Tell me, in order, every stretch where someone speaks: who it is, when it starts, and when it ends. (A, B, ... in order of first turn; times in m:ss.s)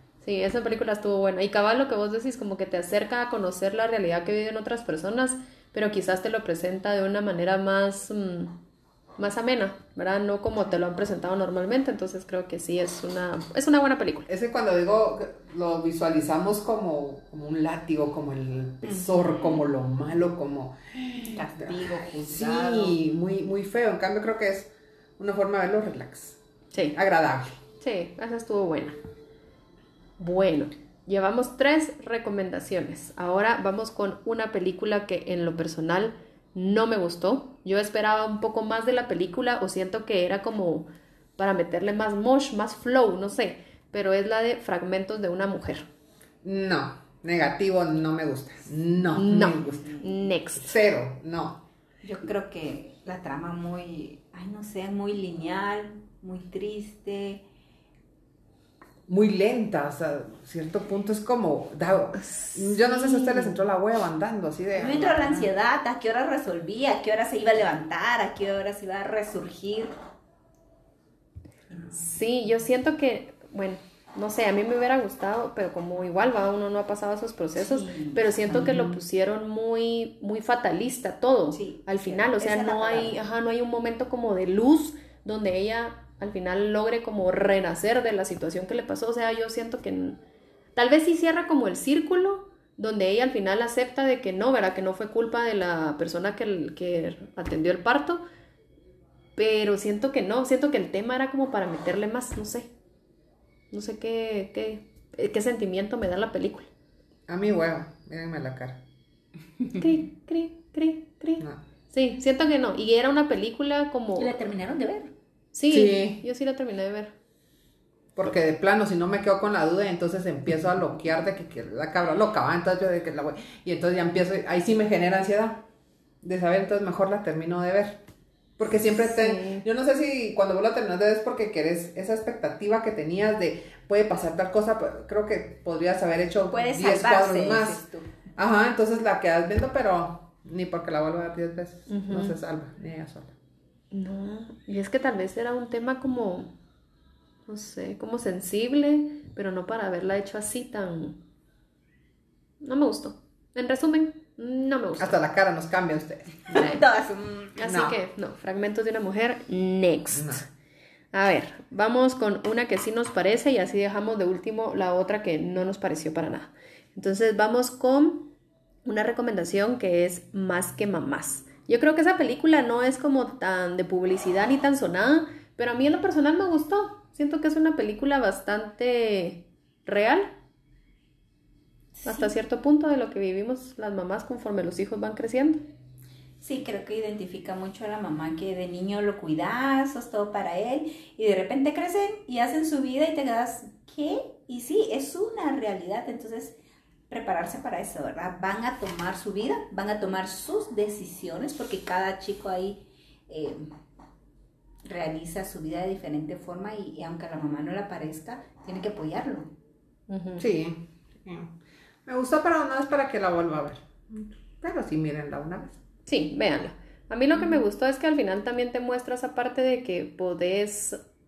0:00.2-0:08.6 A
0:09.2-0:14.3 A
0:14.3-0:26.4 B
0:18.8-0:19.6 C
0:21.3-0:23.0 C
0:26.9-0:27.6 B
0:27.8-0:29.0 A
0:30.2-0:45.8 A
0:46.4-0:49.9 B
0:49.1-0:50.8 A
0:50.6-0:51.6 B
0:52.0-0:57.4 C
0:59.1-1:05.5 B
1:02.3-1:03.5 A
1:04.7-1:09.9 C
1:11.9-1:30.2 A
1:17.6-1:19.0 C
1:21.5-1:23.2 C
1:30.7-1:38.2 A
1:39.4-1:42.7 A
1:43.7-1:46.7 A
1:47.3-1:48.8 B
1:49.7-1:54.3 A
1:54.2-1:55.1 C
1:55.5-1:57.1 A
1:55.7-1:56.2 B
1:58.2-2:05.6 B
2:06.2-2:08.0 B
2:08.6-2:17.8 B
2:09.0-2:09.6 A
2:16.5-2:18.1 C
2:18.4-2:23.3 B
2:21.9-2:22.4 A
2:23.9-2:26.5 A
2:27.5-2:31.2 A
2:32.6-2:35.2 A
2:35.0-2:36.5 B
2:36.5-2:36.8 A
2:36.5-2:37.6 C
2:37.6-2:40.4 A
2:37.6-2:38.0 B
2:40.1-2:40.4 B
2:41.1-2:48.3 A
2:48.8-3:00.3 A
3:02.0-3:02.3 C
3:02.0-3:05.7 A
3:06.4-3:16.6 C
3:17.1-3:23.7 C
3:24.8-3:29.5 C
3:30.1-3:30.4 A
3:30.4-3:31.5 B
3:32.0-3:35.8 B
3:36.0-3:41.0 A
3:37.3-3:37.6 B